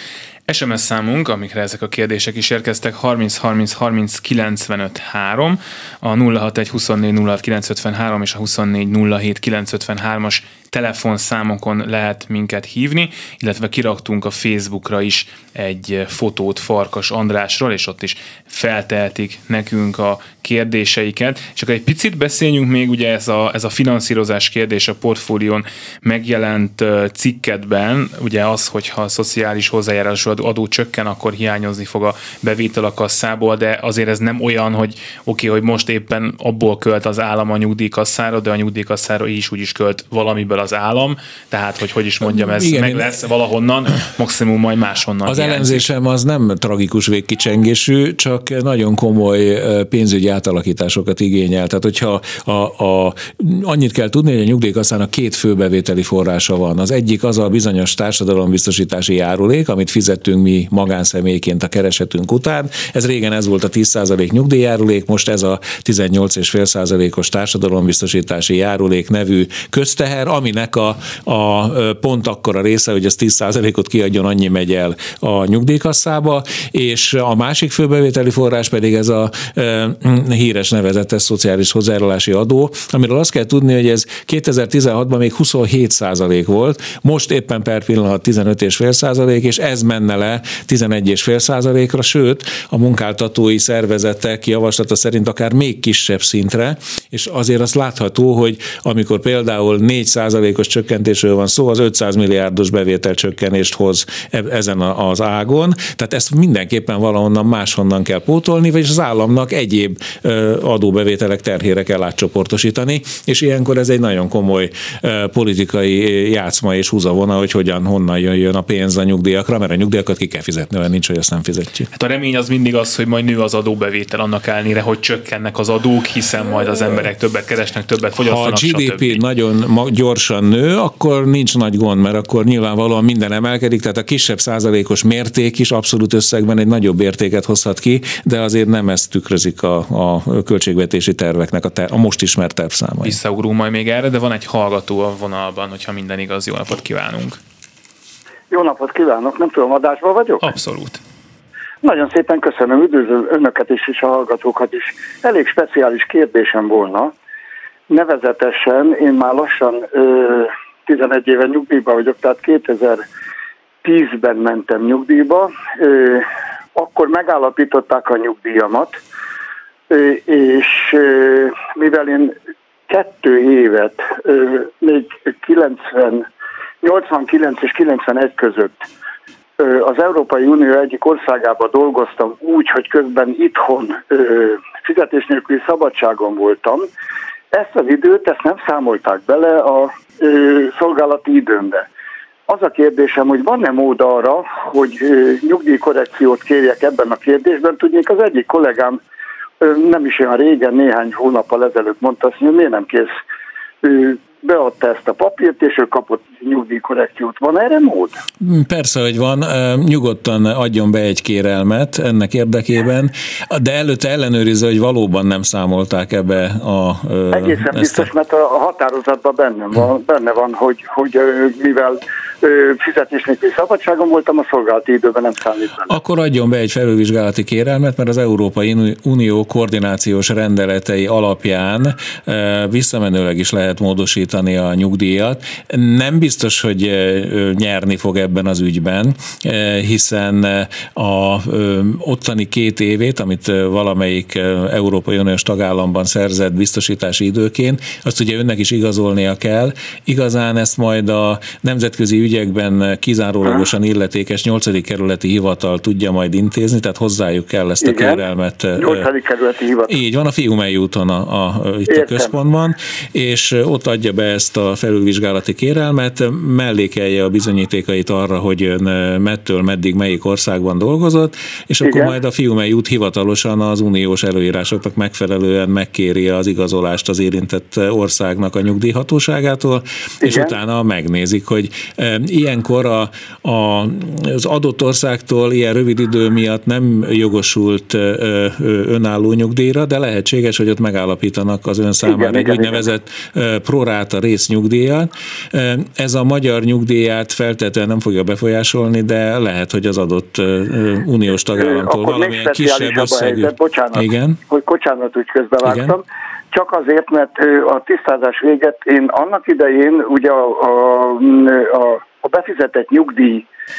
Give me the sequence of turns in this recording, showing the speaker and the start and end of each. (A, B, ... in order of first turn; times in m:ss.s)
0:00.5-0:45.8 A
0:42.2-0:43.1 B
0:45.2-2:01.9 B
2:01.9-2:09.2 A
2:08.2-2:23.2 B
2:23.0-2:27.4 A
2:28.5-2:30.4 C
2:30.4-2:31.0 A
2:31.8-2:37.1 C
2:37.9-2:43.0 C
2:43.8-2:49.0 C
2:49.9-2:52.3 C
2:52.9-2:56.3 C
2:56.8-2:58.8 C
2:59.6-3:06.9 C
3:07.5-3:11.8 C
3:12.5-3:19.0 C
3:19.6-3:23.1 C
3:23.8-3:28.2 C
3:28.4-3:38.1 B
3:37.3-3:45.9 C
3:45.9-4:19.1 B
4:17.8-4:18.2 C
4:18.8-4:20.0 C
4:19.9-5:04.4 B
4:21.9-4:22.3 C
4:31.8-4:32.1 C
4:40.2-4:40.5 C
4:52.0-4:52.8 C
5:01.6-5:13.4 C
5:05.6-5:06.0 B